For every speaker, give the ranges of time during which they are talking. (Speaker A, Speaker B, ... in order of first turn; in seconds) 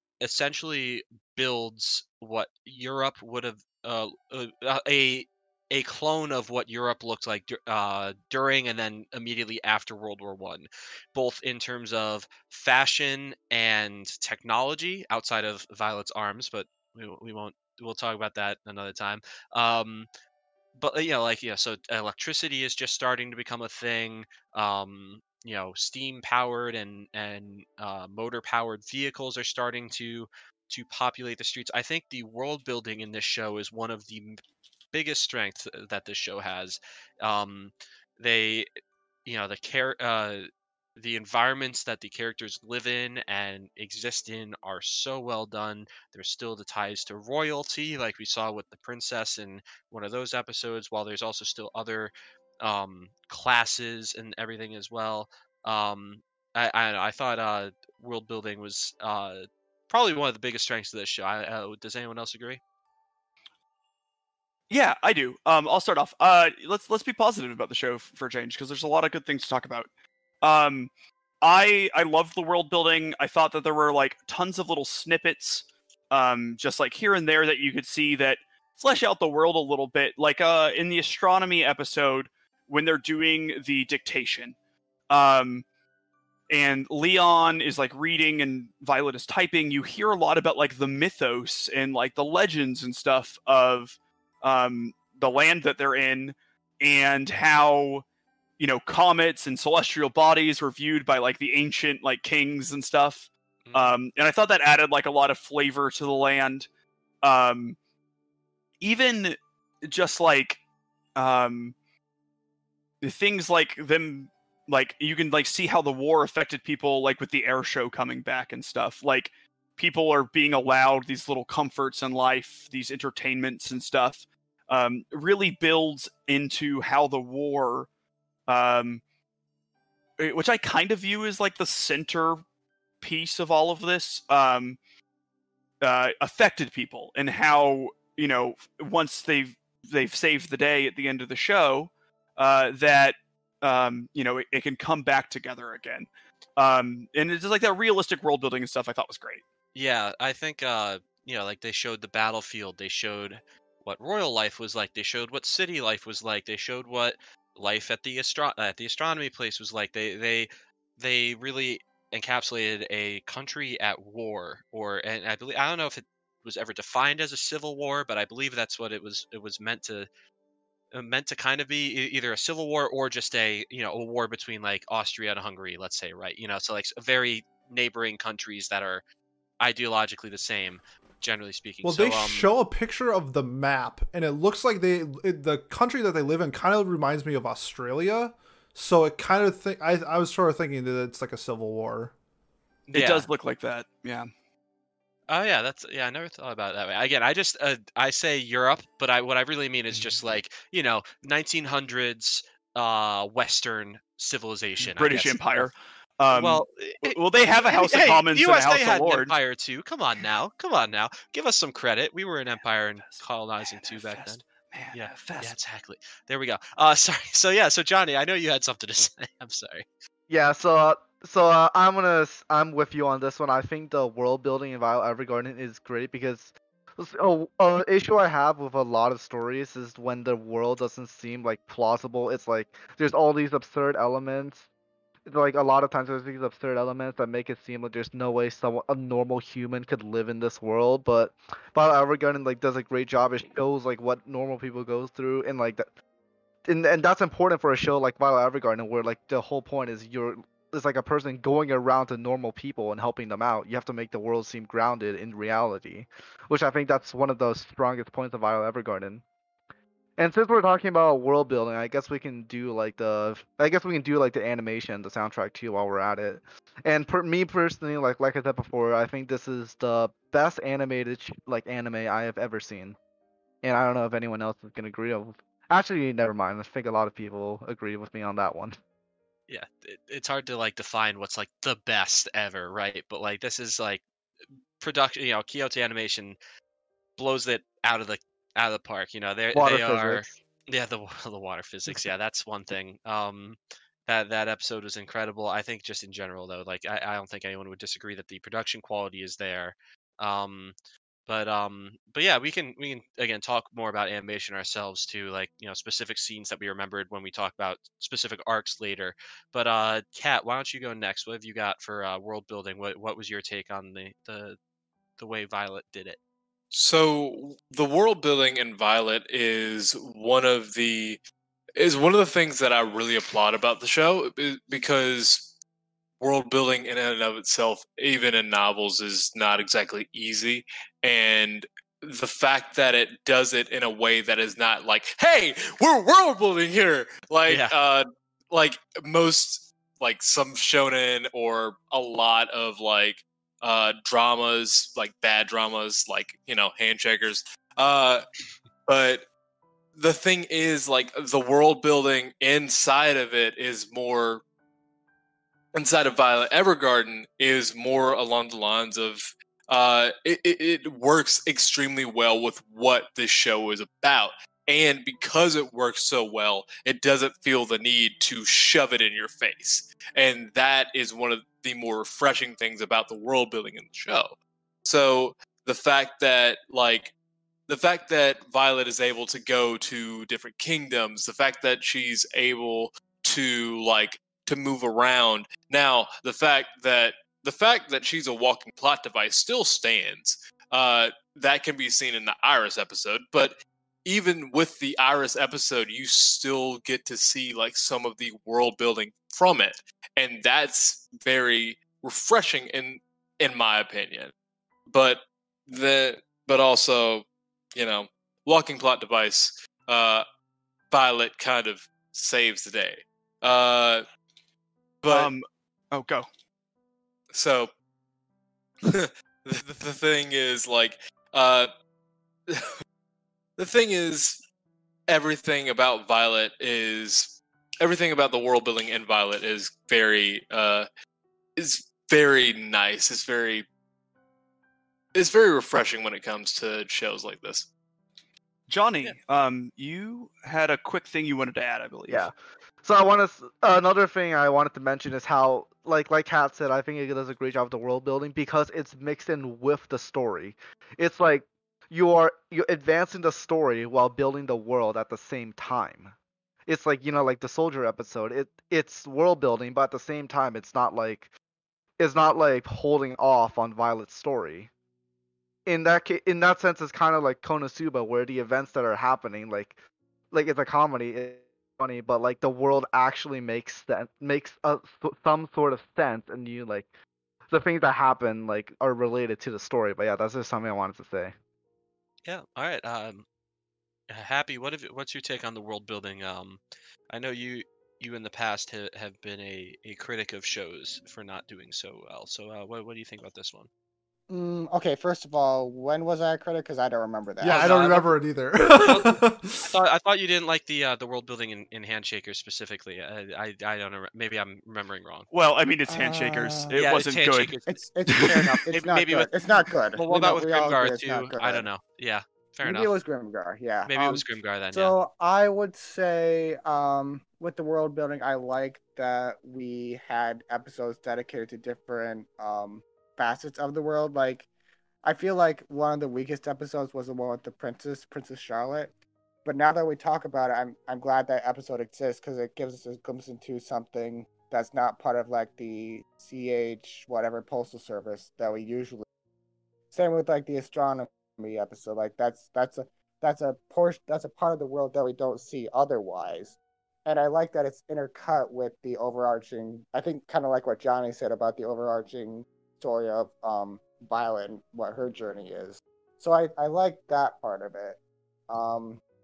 Speaker A: 0.2-20.1, 20.8-34.4, 34.9-38.7, 39.2-62.6, 103.6-104.0, 149.7-170.1, 170.9-179.0, 179.6-182.5, 192.9-193.3, 195.3-205.7, 206.3-219.8, 279.5-284.0, 284.8-286.4, 287.2-300.7, 301.3-314.6, 315.2-316.2, 337.5-337.7, 482.2-483.2, 484.1-493.7, 497.4-498.0, 498.8-505.3, 506.7-507.6, 508.7-509.3, 509.9-512.9, 513.9-514.9
Speaker B: 64.7-69.9, 70.4-70.9, 71.4-84.5, 85.1-85.6, 86.5-98.0, 98.6-106.7, 107.2-107.8, 108.8-110.6, 111.1-111.7, 113.0-127.9, 128.5-129.0, 130.2-132.4, 133.0-134.8, 135.8-149.4, 192.9-194.3, 204.8-209.3, 213.0-215.5, 415.0-416.3, 438.7-442.3, 505.3-508.6
Speaker C: 181.8-192.1, 497.4-499.7
Speaker D: 220.3-234.7, 235.3-245.9, 246.6-259.2, 260.2-273.0, 273.6-278.8, 289.5-290.4, 442.1-456.1, 456.6-461.3, 462.0-464.7, 465.6-469.8, 470.3-476.9, 477.5-481.3
Speaker E: 316.7-321.2, 321.8-325.5, 326.2-348.2, 348.9-349.2, 349.9-354.4, 355.7-374.3, 374.8-377.1, 377.7-404.3, 404.9-410.2, 410.9-414.0, 415.1-415.3, 417.3-417.7, 418.8-421.7, 423.6-424.4, 425.1-430.9, 431.6-433.6, 435.1-437.7
Speaker F: 494.3-498.1, 505.9-506.8, 507.6-511.7, 512.6-524.5, 525.0-539.0, 539.9-559.0